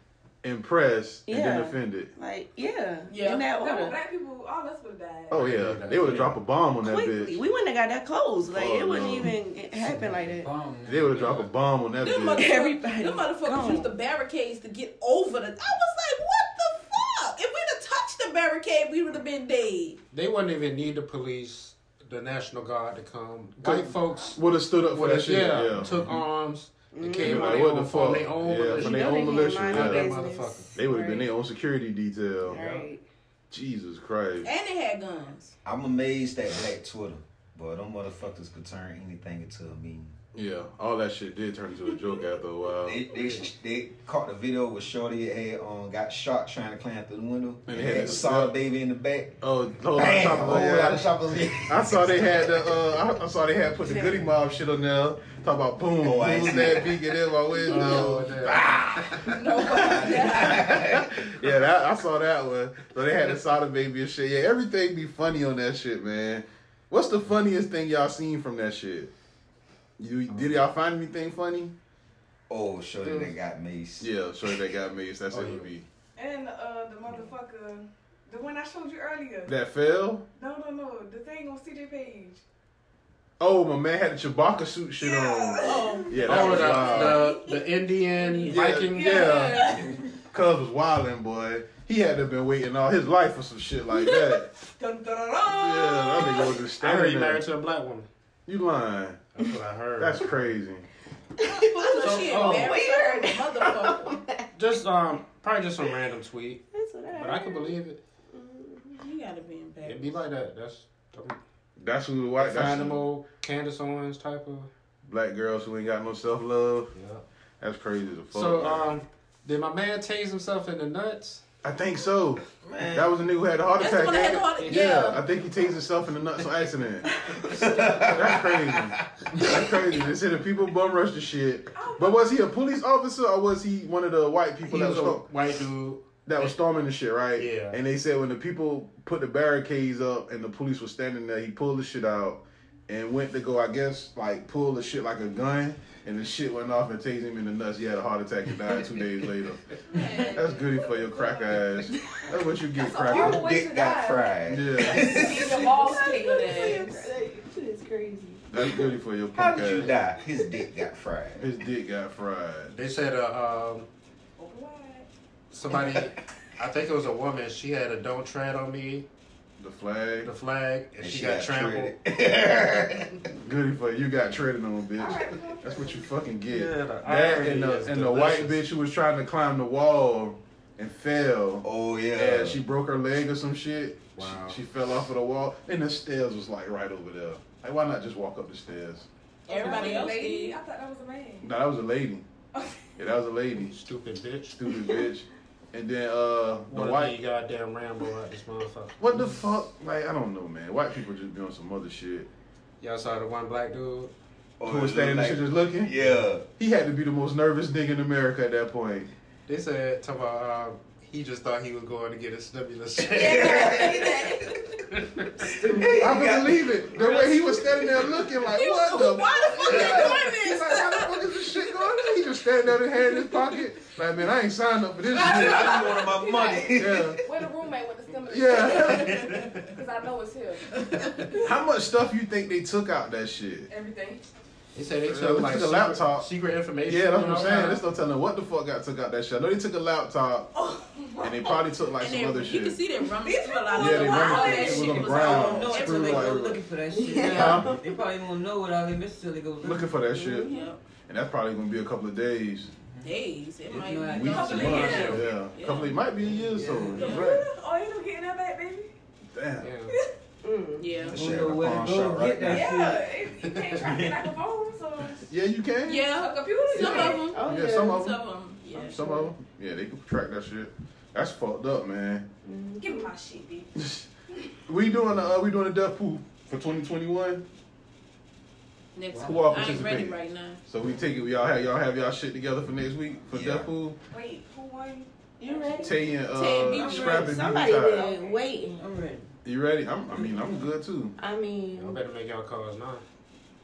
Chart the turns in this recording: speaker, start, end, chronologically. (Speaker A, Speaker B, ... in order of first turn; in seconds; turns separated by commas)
Speaker A: 0.4-2.1, Speaker B: 1.3-4.0, Speaker C: 3.1-3.5, Speaker D: 3.4-5.5, Speaker A: 5.3-7.4, Speaker E: 5.3-6.4, Speaker B: 6.8-10.5, Speaker A: 8.4-9.4, Speaker F: 9.8-11.5, Speaker A: 10.8-12.5, Speaker C: 12.0-20.0, Speaker B: 12.3-13.9, Speaker E: 20.1-30.8, Speaker A: 23.6-26.2, Speaker B: 26.9-27.7, Speaker A: 27.1-30.2, Speaker B: 28.6-31.3, Speaker A: 30.8-32.6, Speaker B: 32.5-33.0, Speaker E: 32.5-32.9, Speaker A: 33.5-34.5, Speaker C: 34.4-35.5, Speaker G: 35.6-40.1, Speaker A: 40.3-43.0, Speaker G: 42.8-49.4, Speaker E: 43.2-43.5, Speaker A: 47.7-48.6, Speaker A: 49.4-69.1, Speaker G: 49.9-52.6, Speaker B: 53.9-54.2, Speaker G: 56.0-57.0, Speaker E: 57.6-59.4, Speaker C: 59.3-60.8, Speaker G: 59.7-61.1, Speaker A: 70.0-71.7, Speaker E: 70.3-70.6, Speaker G: 72.5-74.1, Speaker E: 73.0-73.3, Speaker A: 74.0-75.8, Speaker E: 75.3-75.7, Speaker D: 76.2-79.5, Speaker A: 79.5-80.2, Speaker D: 80.3-82.4, Speaker A: 83.4-87.2, Speaker D: 85.0-87.6, Speaker C: 85.6-87.3, Speaker E: 86.2-89.2, Speaker D: 88.2-90.0, Speaker C: 88.2-89.9, Speaker A: 88.5-89.8, Speaker A: 90.3-94.5, Speaker D: 94.8-96.6, Speaker A: 95.6-97.4, Speaker E: 96.8-98.1, Speaker A: 98.5-99.3, Speaker E: 99.4-100.3, Speaker A: 100.0-100.9, Speaker B: 101.4-104.5, Speaker C: 101.4-104.2, Speaker E: 102.0-102.8, Speaker E: 104.5-106.6, Speaker B: 106.7-107.8, Speaker E: 107.1-108.0, Speaker B: 108.3-108.9, Speaker C: 108.9-110.2, Speaker E: 109.8-111.4, Speaker A: 111.8-113.0, Speaker E: 112.4-114.7, Speaker A: 115.0-116.9, Speaker E: 116.9-117.2, Speaker A: 117.6-118.9, Speaker E: 118.3-121.4, Speaker A: 121.6-127.1, Speaker G: 122.6-123.1, Speaker C: 123.8-125.2, Speaker E: 124.6-125.1, Speaker G: 127.4-129.0, Speaker A: 127.9-135.2, Speaker D: 131.7-132.4, Speaker E: 134.7-136.5, Speaker A: 136.2-149.7, Speaker E: 137.4-137.8, Speaker C: 149.9-150.7, Speaker D: 149.9-151.9, Speaker A: 150.3-153.5, Speaker D: 152.8-157.1, Speaker G: 153.1-155.7, Speaker A: 154.5-155.1, Speaker B: 155.2-158.8, Speaker C: 156.1-156.9, Speaker A: 158.5-159.9, Speaker G: 159.3-161.4, Speaker A: 161.4-162.7, Speaker E: 162.7-163.9, Speaker D: 164.4-165.1, Speaker E: 165.5-169.1, Speaker A: 169.6-170.3, Speaker E: 170.2-171.9, Speaker G: 171.0-173.2, Speaker A: 173.4-189.1, Speaker D: 175.0-176.1, Speaker E: 176.5-178.6, Speaker G: 181.6-182.6, Speaker E: 184.2-184.6, Speaker C: 189.5-190.6, Speaker D: 189.5-191.5, Speaker A: 191.4-192.2, Speaker A: 193.0-193.7, Speaker E: 193.6-194.6, Speaker A: 194.5-197.2, Speaker E: 196.7-199.4, Speaker A: 199.0-202.3, Speaker E: 202.8-204.1, Speaker G: 204.6-206.5, Speaker A: 204.7-205.9, Speaker A: 206.6-209.1, Speaker E: 209.5-214.1, Speaker G: 213.1-214.3, Speaker C: 213.2-214.6, Speaker E: 214.9-215.5, Speaker G: 215.5-217.4, Speaker A: 216.0-225.9, Speaker C: 218.5-221.2, Speaker D: 225.1-231.5, Speaker G: 225.2-227.2, Speaker A: 226.7-227.2, Speaker A: 228.3-229.3, Speaker A: 231.4-233.7, Speaker D: 233.7-234.2, Speaker E: 234.8-237.8, Speaker A: 235.1-236.3, Speaker A: 236.9-240.5, Speaker D: 240.7-241.4, Speaker A: 241.2-242.8, Speaker C: 242.0-246.4, Speaker D: 243.2-245.6, Speaker A: 243.7-246.6, Speaker F: 245.0-250.0, Speaker B: 246.9-247.8, Speaker C: 247.3-247.5, Speaker A: 247.3-247.7, Speaker A: 249.6-250.5, Speaker B: 250.2-250.7, Speaker C: 250.5-250.8, Speaker A: 251.1-252.7, Speaker C: 253.0-255.9, Speaker F: 253.7-255.2, Speaker A: 254.1-257.4, Speaker D: 254.3-255.2, Speaker E: 254.9-255.2, Speaker F: 256.5-257.1, Speaker D: 257.0-258.9, Speaker C: 257.0-257.3, Speaker A: 259.3-259.7, Speaker E: 259.6-259.9, Speaker B: 260.4-260.9, Speaker C: 260.8-261.2, Speaker G: 261.1-262.8, Speaker F: 261.1-263.0, Speaker D: 262.5-265.3, Speaker G: 263.8-264.2, Speaker A: 265.3-266.1, Speaker C: 265.8-269.0, Speaker D: 266.1-267.4, Speaker A: 266.8-268.2, Speaker B: 266.8-268.0, Speaker B: 268.8-269.3, Speaker A: 268.9-272.3, Speaker B: 272.4-273.1, Speaker D: 272.8-273.7, Speaker A: 273.8-274.1, Speaker A: 274.7-277.5, Speaker C: 278.9-280.6, Speaker F: 279.1-279.4, Speaker A: 279.2-284.0, Speaker G: 283.3-283.7, Speaker D: 284.1-286.0, Speaker B: 285.4-285.9, Speaker A: 285.8-288.0, Speaker C: 286.3-287.4, Speaker B: 286.8-288.8, Speaker F: 288.8-289.3, Speaker A: 289.4-291.1, Speaker B: 291.2-292.0, Speaker E: 291.8-293.0